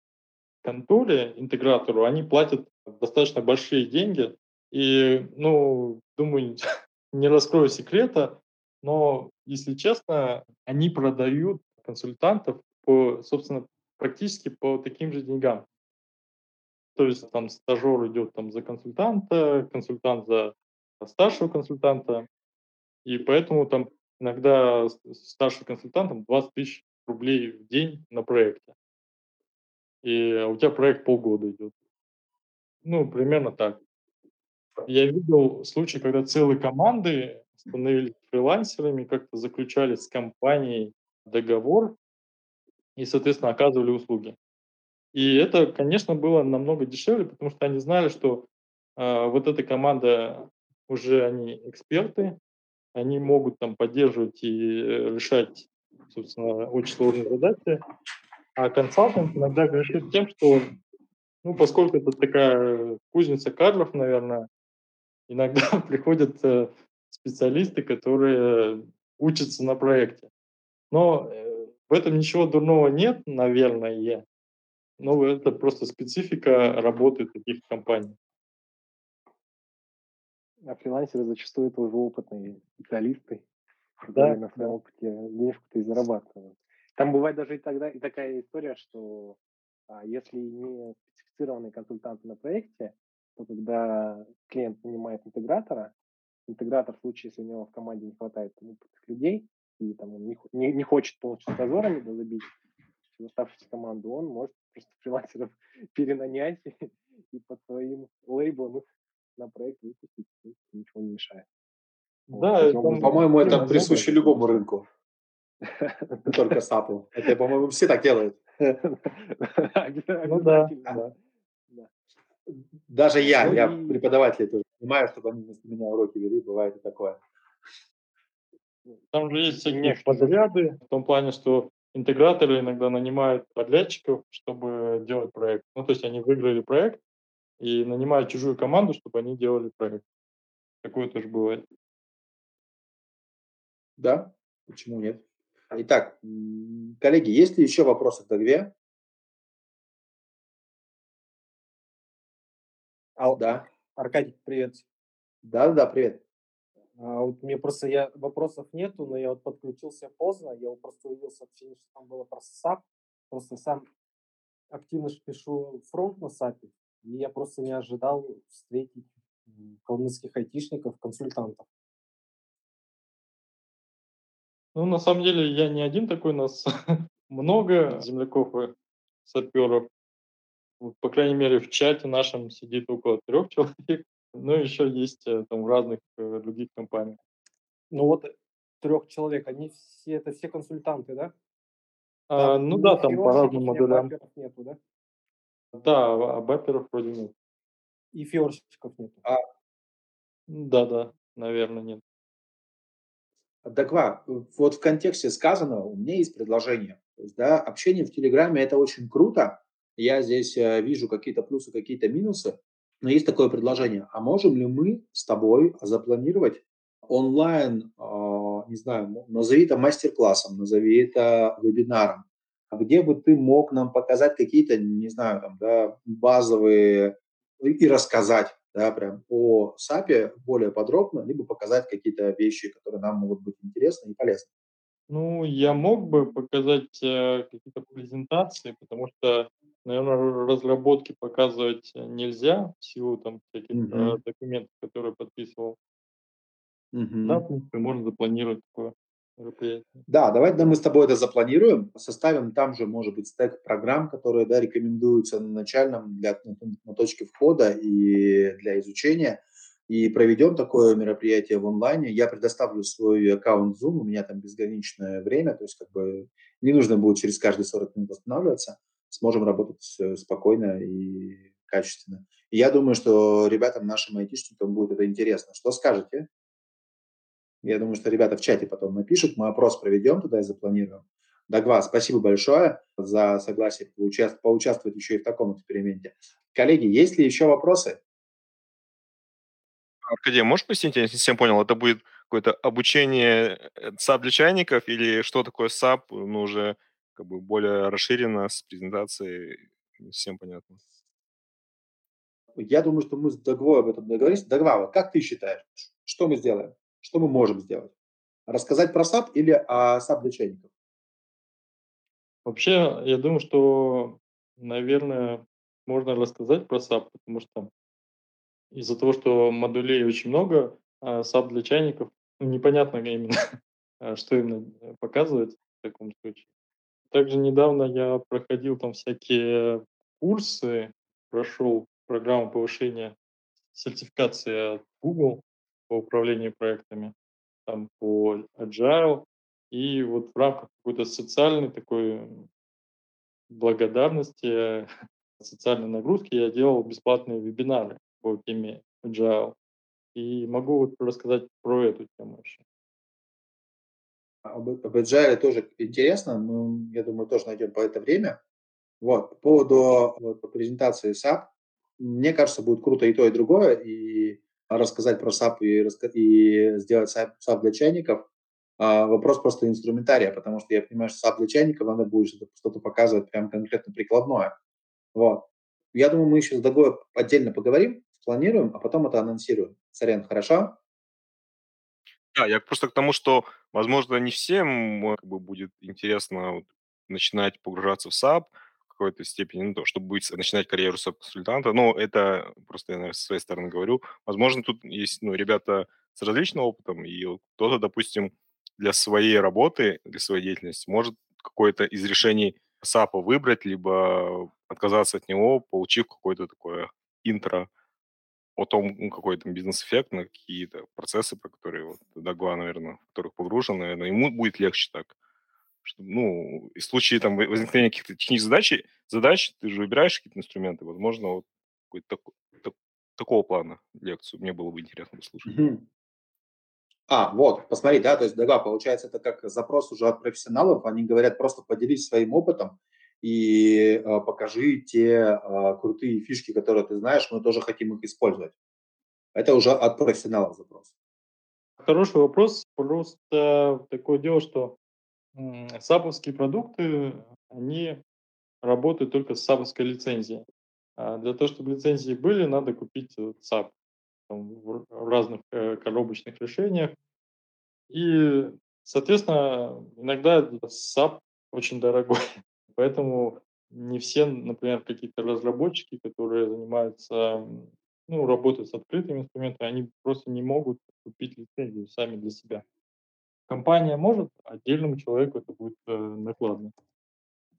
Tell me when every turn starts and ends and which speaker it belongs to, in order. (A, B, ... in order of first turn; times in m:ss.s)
0:00.6-0:15.7 A
0:17.0-0:22.3 A
0:23.0-0:28.7 A
0:30.0-0:31.7 A
0:32.8-0:33.8 A
0:34.9-0:42.0 A
0:43.0-0:44.4 A
0:45.1-0:52.4 A
0:53.0-0:57.8 A
0:58.6-1:00.7 A
1:01.4-1:04.5 A
1:05.3-1:10.3 A
1:10.9-1:14.2 A
1:15.0-1:18.2 A
1:20.6-1:23.5 B
1:24.0-1:35.9 B
1:24.2-1:24.8 A
1:36.5-1:42.6 B
1:43.2-1:48.8 B
1:49.4-1:51.5 B
1:52.3-1:54.1 A
1:52.3-1:54.6 B
1:53.0-1:54.9 C
1:55.6-1:56.6 B
1:56.3-1:58.7 C
1:58.8-2:01.1 B
2:00.2-2:01.1 A
2:02.9-2:07.2 C
2:03.3-2:04.0 B
2:09.1-2:17.0 A
2:09.5-2:10.4 B
2:17.6-2:20.0 A
2:20.8-2:21.6 A
2:24.0-2:28.7 C
2:33.2-2:34.8 D
2:33.4-2:33.7 C
2:35.4-2:36.2 C
2:37.0-2:43.9 D
2:44.7-2:51.7 D
2:54.8-2:58.7 A
2:59.3-2:59.9 A
3:00.8-3:07.2 A
3:07.9-3:11.3 D
3:12.3-3:14.1 A
3:12.4-3:14.8 D
3:15.7-3:17.3 A
3:18.1-3:19.3 D
3:20.5-3:22.0 A
3:23.6-3:54.5 C
3:55.1-4:05.8 A
4:03.7-4:04.2 C
4:06.9-4:07.4 C
4:07.2-4:10.0 A
4:10.1-4:36.3 C
4:37.6-4:48.0 C
4:50.1-5:00.8 E
5:02.6-5:07.9 C
5:08.5-5:10.7 C
5:12.4-5:17.7 A
5:18.7-5:23.4 A
5:24.0-5:26.5 A
5:27.1-5:33.2 A
5:33.7-5:37.1 A
5:37.7-5:42.5 A
5:43.5-5:44.9 A
5:45.4-5:49.6 A
5:50.2-5:52.6 A
5:54.4-5:58.4 C
5:59.0-6:08.3 C
6:08.8-6:14.5 C
6:15.2-6:20.8 C
6:22.4-6:47.7 E
6:48.6-6:55.1 E
6:55.8-7:05.6 E
7:05.5-7:05.8 C
7:07.1-7:18.5 C
7:19.4-7:20.9 C
7:21.8-7:24.8 A
7:25.4-7:28.0 A
7:28.6-7:30.5 A
7:31.0-7:33.7 A
7:34.3-7:37.0 A
7:37.9-7:42.2 A
7:42.8-7:52.6 A
7:53.5-7:56.7 A